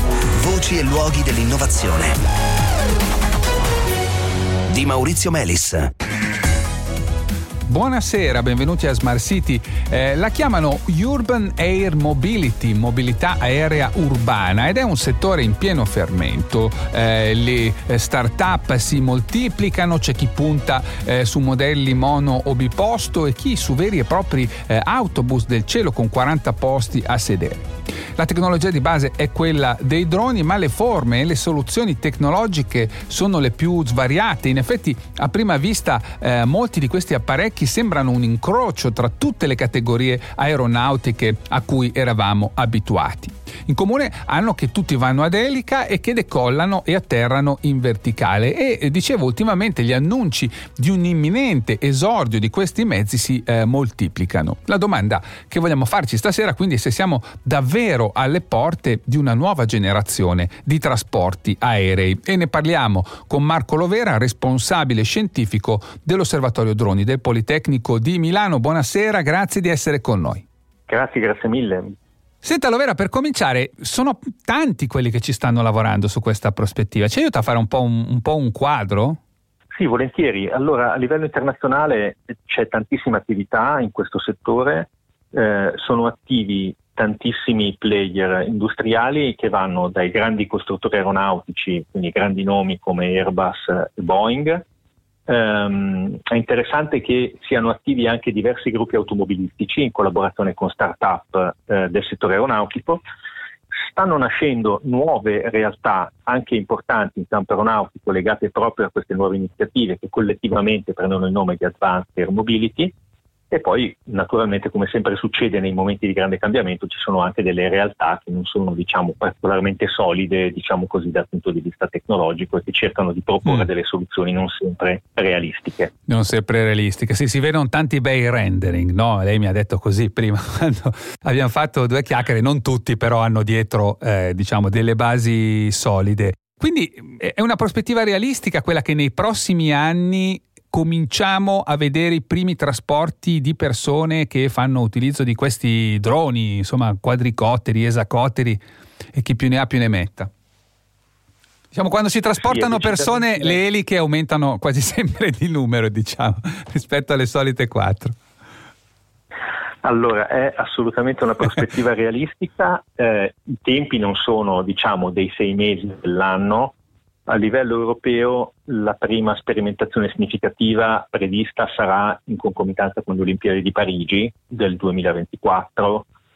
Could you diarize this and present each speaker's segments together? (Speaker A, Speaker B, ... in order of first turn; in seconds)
Speaker A: 0.4-2.2, 4.7-5.9
Speaker B: 7.7-70.4, 72.4-79.2, 126.1-148.6, 149.1-150.3, 151.7-158.2
Speaker C: 70.9-72.0, 79.8-94.6, 95.3-103.0, 103.8-112.9, 113.5-125.9, 152.4-153.6, 159.8-166.8, 167.3-176.1